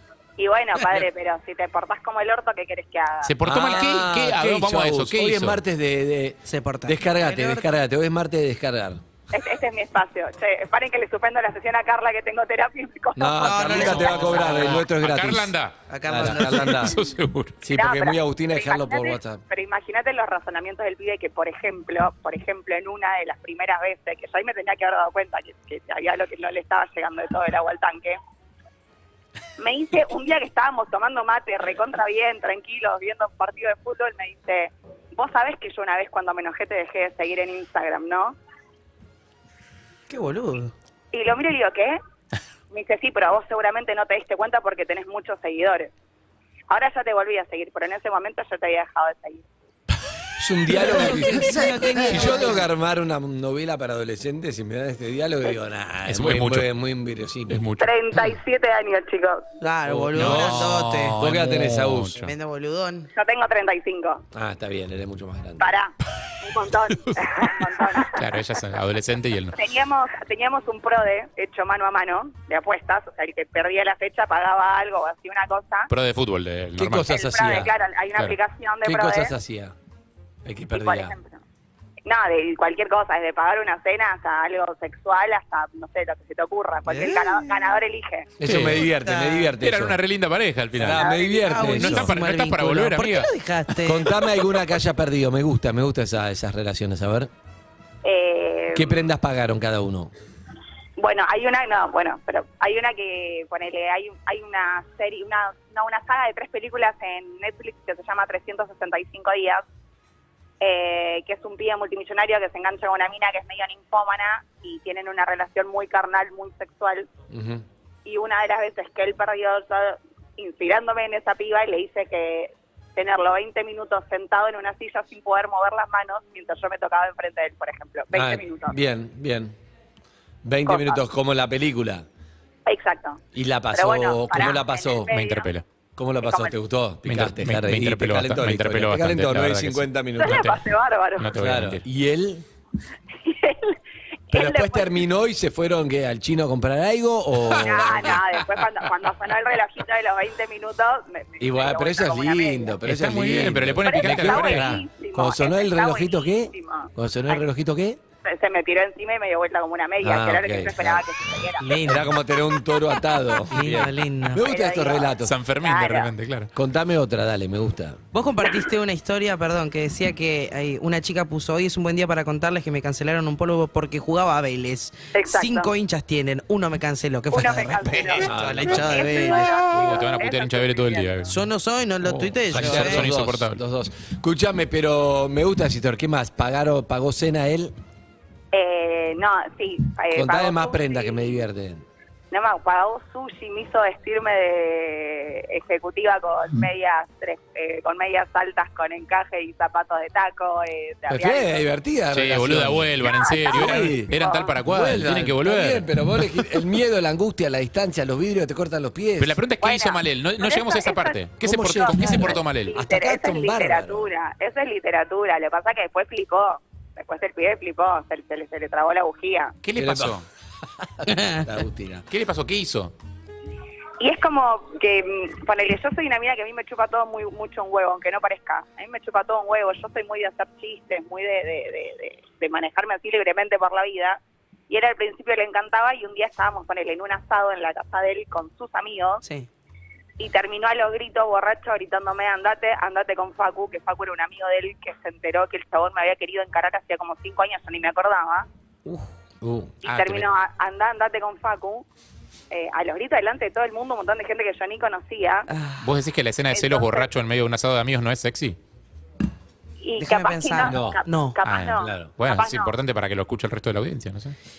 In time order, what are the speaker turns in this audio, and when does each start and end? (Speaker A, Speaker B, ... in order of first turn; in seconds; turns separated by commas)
Speaker A: 0.4-3.3, Speaker B: 3.2-5.6, Speaker C: 3.4-9.0, Speaker D: 6.5-7.7, Speaker A: 9.3-14.4, Speaker C: 13.2-15.5, Speaker D: 13.4-14.7, Speaker B: 14.1-17.6, Speaker D: 15.9-16.9, Speaker C: 16.1-17.0, Speaker C: 17.6-19.4, Speaker A: 17.7-28.2, Speaker A: 29.6-38.4, Speaker D: 40.1-40.7, Speaker A: 41.1-42.0, Speaker A: 42.7-45.9, Speaker A: 46.7-49.4, Speaker C: 50.4-57.6, Speaker D: 50.8-52.6, Speaker B: 56.0-56.7, Speaker B: 57.5-57.9, Speaker A: 57.8-59.4, Speaker D: 59.6-61.2, Speaker C: 59.9-62.2, Speaker B: 60.1-62.3, Speaker D: 62.1-63.1, Speaker A: 63.1-64.2, Speaker C: 64.3-65.7, Speaker A: 65.6-68.4, Speaker B: 68.1-69.6, Speaker A: 69.5-75.9, Speaker B: 75.9-77.2, Speaker C: 76.8-77.7, Speaker A: 77.0-79.3, Speaker C: 78.8-79.7, Speaker C: 80.4-81.1, Speaker A: 80.7-81.4, Speaker A: 82.0-88.3, Speaker D: 86.9-87.5, Speaker C: 88.4-90.0, Speaker B: 88.4-88.9, Speaker D: 88.9-89.5, Speaker B: 89.6-93.3, Speaker C: 90.7-92.1, Speaker A: 90.9-91.5, Speaker D: 91.2-94.1, Speaker C: 93.8-97.3, Speaker A: 98.0-99.1, Speaker C: 98.7-100.1, Speaker A: 101.0-109.6, Speaker A: 110.6-117.1, Speaker C: 117.3-117.6, Speaker A: 118.0-128.8, Speaker C: 128.1-129.6, Speaker C: 130.4-132.1, Speaker A: 130.6-131.0, Speaker A: 132.7-135.6, Speaker C: 133.3-135.1, Speaker B: 135.1-135.6, Speaker C: 136.0-140.6, Speaker A: 136.2-136.6, Speaker B: 137.0-140.6, Speaker A: 140.2-141.4, Speaker B: 141.2-141.8, Speaker C: 141.3-142.4, Speaker A: 143.2-143.8, Speaker A: 144.3-145.1, Speaker C: 144.3-148.2, Speaker A: 147.6-152.8, Speaker B: 147.8-148.2, Speaker C: 151.4-158.0, Speaker B: 152.8-154.8, Speaker A: 153.8-157.4, Speaker A: 158.2-162.0, Speaker C: 160.0-165.3, Speaker D: 161.6-162.2, Speaker D: 163.5-164.4, Speaker A: 164.4-166.1, Speaker B: 165.2-166.5, Speaker C: 166.5-168.0, Speaker D: 168.1-179.7, Speaker A: 175.1-175.7, Speaker A: 177.3-181.3, Speaker C: 178.2-179.0, Speaker B: 179.6-181.3, Speaker D: 181.3-183.0, Speaker B: 182.0-183.6, Speaker C: 182.5-187.7, Speaker A: 188.5-191.4, Speaker C: 190.1-191.8, Speaker A: 192.3-201.7, Speaker C: 201.1-204.1, Speaker B: 202.1-206.4, Speaker A: 203.0-204.6, Speaker C: 204.6-209.4, Speaker B: 209.2-212.7, Speaker A: 209.6-219.5, Speaker C: 211.4-214.1, Speaker B: 219.6-220.2, Speaker C: 219.8-220.2, Speaker C: 220.8-222.1, Speaker D: 221.1-221.4, Speaker B: 222.1-222.9, Speaker A: 224.0-239.2, Speaker D: 239.2-239.5, Speaker A: 240.2-248.4, Speaker C: 249.4-249.7, Speaker A: 249.8-251.8, Speaker B: 249.9-250.3, Speaker A: 252.5-255.5, Speaker D: 255.5-255.8, Speaker B: 255.8-258.6, Speaker A: 256.5-257.1, Speaker A: 259.8-262.8, Speaker D: 260.0-261.4, Speaker C: 260.6-261.0, Speaker B: 261.4-264.3, Speaker C: 261.8-262.1